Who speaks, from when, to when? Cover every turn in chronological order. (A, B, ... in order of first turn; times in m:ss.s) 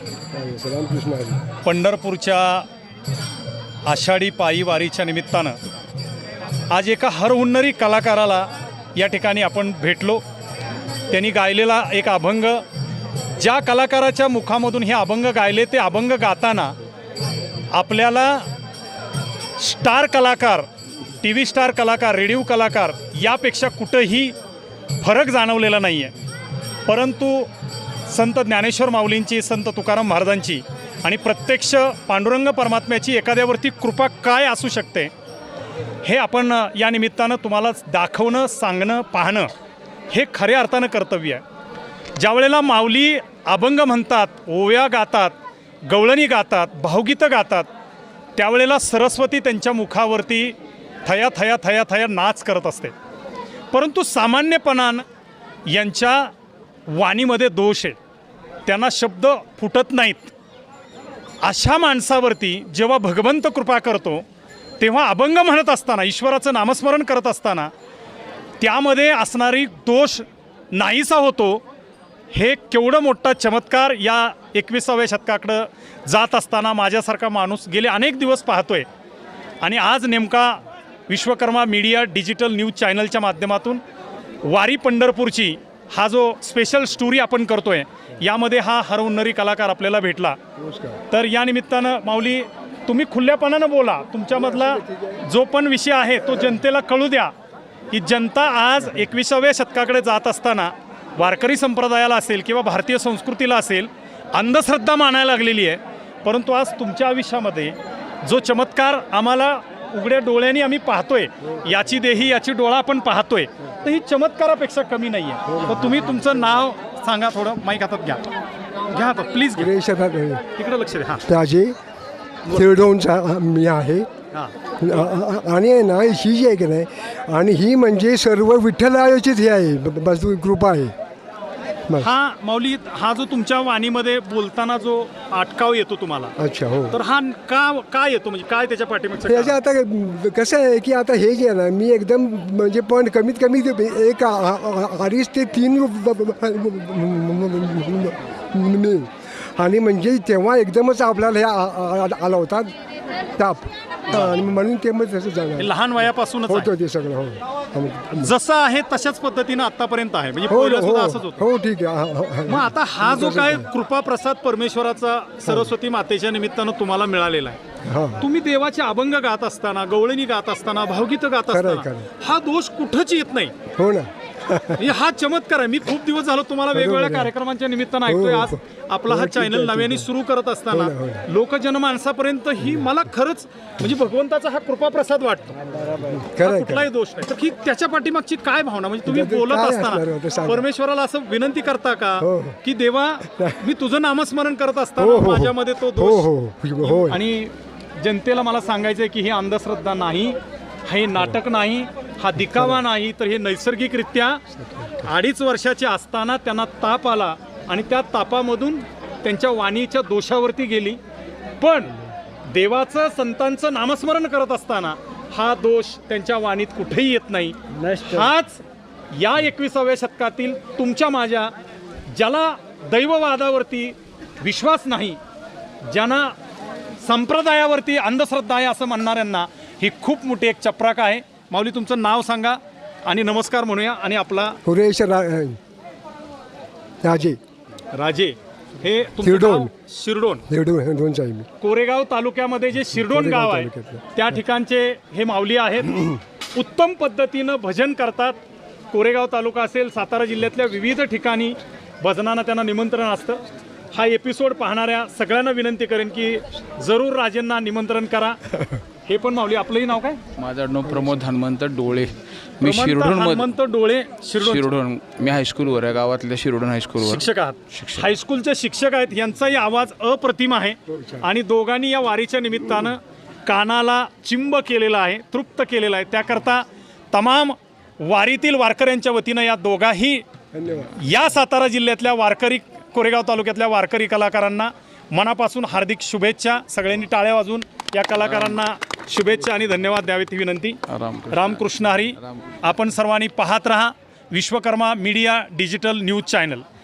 0:00.3-0:01.4 A
0:01.6-0:02.6 B
0:03.9-0:05.6 B
0:06.7-0:10.2 B
0:11.1-0:12.6 B
0:13.4-0:16.7 B
0:17.7-0:18.5 B
0:19.6-0:20.7 B
0:21.2-0:24.3 B
0:25.0-0:26.1 B
0:26.9-0:27.5 B
0:28.1-0:35.1 B
0:36.0-0:39.5 B
0:40.1-0:41.4 B
0:42.2-0:45.4 B
0:45.9-0:47.7 B
0:48.4-0:52.9 B
0:53.7-0:55.0 B
0:55.7-0:56.3 B
0:56.9-0:58.0 B
0:58.7-1:00.3 B
1:01.4-1:04.2 B
1:04.8-1:07.7 B
1:08.6-1:11.6 B
1:12.3-1:18.9 B
1:19.6-1:23.8 B
1:24.5-1:30.4 B
1:30.6-1:31.0 A
1:31.1-1:37.3 B
1:34.4-1:35.2 A
1:37.9-1:58.2 B
1:55.4-1:56.3 A
1:58.9-1:59.7 B
1:59.6-2:00.5 A
2:00.5-2:01.2 B
2:01.2-2:01.8 A
2:02.5-2:04.1 A
2:04.8-2:10.9 A
2:12.0-2:16.3 B
2:16.4-2:17.0 A
2:16.9-2:19.5 B
2:19.2-2:32.7 A
2:33.4-2:35.7 A
2:35.6-2:36.7 B
2:36.5-2:38.3 A
2:38.2-2:41.4 B
2:40.5-2:43.7 A
2:42.5-2:47.6 B
2:47.8-2:48.3 A
2:48.2-2:53.5 B
2:51.5-2:52.1 A
2:53.7-2:54.8 A
2:54.8-3:05.6 B
2:56.7-2:57.3 A
2:58.0-3:00.1 A
3:00.7-3:01.2 A
3:02.6-3:02.8 A
3:05.7-3:06.9 A
3:06.4-3:16.3 B
3:09.0-3:10.6 A
3:12.2-3:12.6 A
3:13.2-3:13.6 A
3:15.0-3:17.2 A
3:16.8-3:24.4 B
3:22.4-3:22.8 A
3:24.6-3:25.0 A
3:25.0-3:31.0 B
3:31.6-3:31.9 B
3:32.5-3:38.6 B
3:37.8-3:38.3 A
3:39.1-3:41.5 B
3:42.1-3:45.2 B
3:45.9-3:46.3 B
3:47.0-3:54.6 B
3:54.6-3:55.6 A
3:57.0-3:57.4 A
3:57.9-4:00.4 B
3:59.2-3:59.7 A
4:00.5-4:01.5 A
4:01.6-4:08.4 B
4:02.9-4:04.1 A
4:08.9-4:13.4 B
4:13.9-4:18.4 B
4:19.0-4:20.2 B
4:20.4-4:23.5 C
4:22.6-4:24.7 B
4:24.4-4:28.1 C
4:27.0-4:40.2 B
4:30.9-4:31.2 A
4:40.5-4:41.0 A
4:41.0-4:50.8 B
4:50.9-4:51.7 C
4:51.3-4:56.6 B